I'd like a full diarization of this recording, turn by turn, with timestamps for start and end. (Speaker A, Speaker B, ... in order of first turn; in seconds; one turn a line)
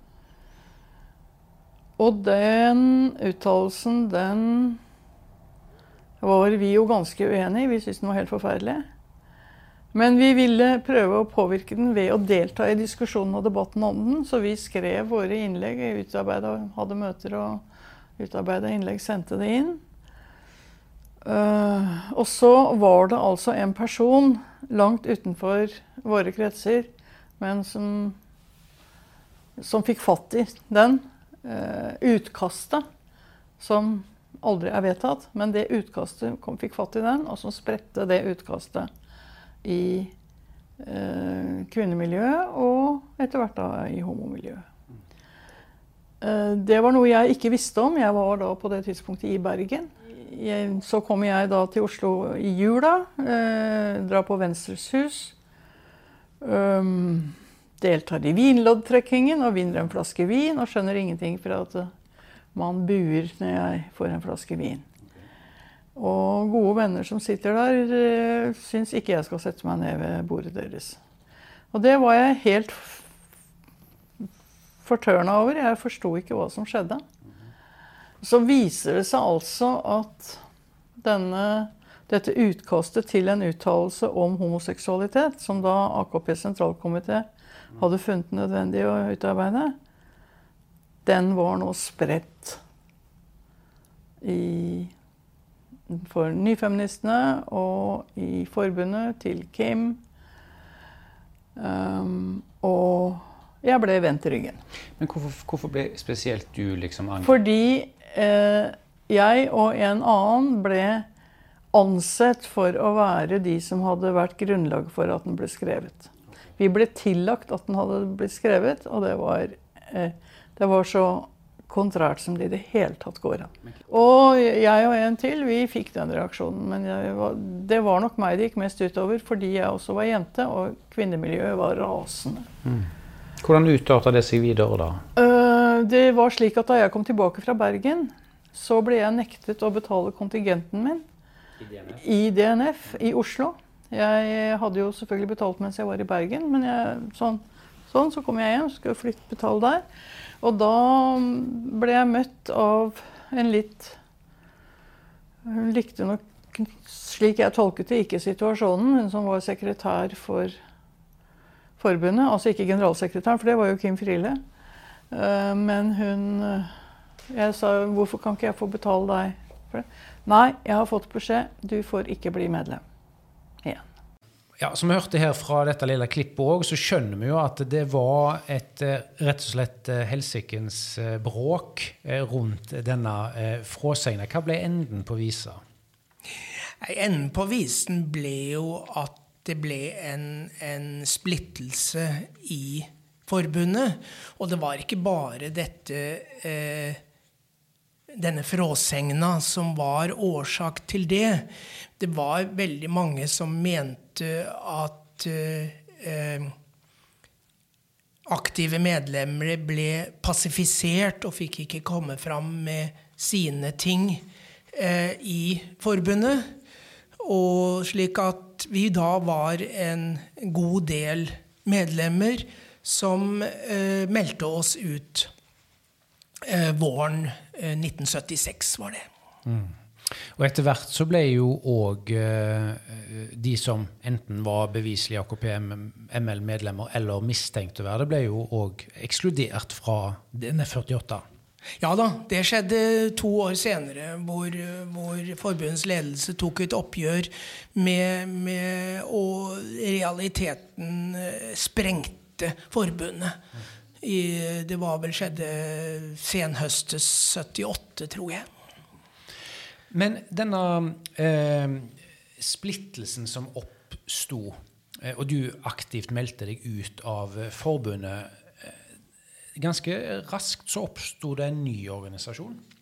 Speaker A: 2.0-4.8
Speaker A: 6.2-8.8
Speaker A: 9.9-17.6
Speaker A: 18.2-19.8
Speaker A: 21.2-28.2
Speaker A: 29.6-32.9
Speaker A: 33.6-38.9
Speaker A: 39.6-40.1
Speaker A: 40.8-44.7
Speaker A: 46.2-55.3
Speaker A: 56.4-61.9
Speaker A: 62.5-64.9
Speaker A: 66.0-71.0
Speaker A: 71.7-73.0
Speaker A: 74.8-77.0
Speaker A: 78.2-80.4
Speaker A: 81.0-89.8
Speaker A: 91.0-92.6
Speaker A: 94.2-94.9
Speaker A: 95.9-100.0
Speaker A: 101.6-104.6
Speaker B: 105.0-107.4
Speaker A: 107.2-111.1
Speaker A: 111.7-132.5
Speaker B: 133.4-135.0
Speaker A: 135.2-141.0
Speaker B: 141.6-142.0
Speaker A: 141.9-149.8
Speaker A: 150.4-154.0
Speaker A: 155.4-160.6
Speaker A: 161.8-164.4
Speaker A: 165.1-166.7
Speaker A: 167.3-172.8
Speaker B: 174.6-185.6
Speaker C: 186.8-197.0
Speaker C: 198.1-206.5
Speaker C: 208.3-216.5
Speaker C: 217.2-225.3
Speaker C: 226.4-229.1
Speaker B: 229.5-241.2
Speaker C: 241.8-253.4
Speaker C: 254.0-258.4
Speaker B: 259.9-268.8
Speaker B: 269.6-272.6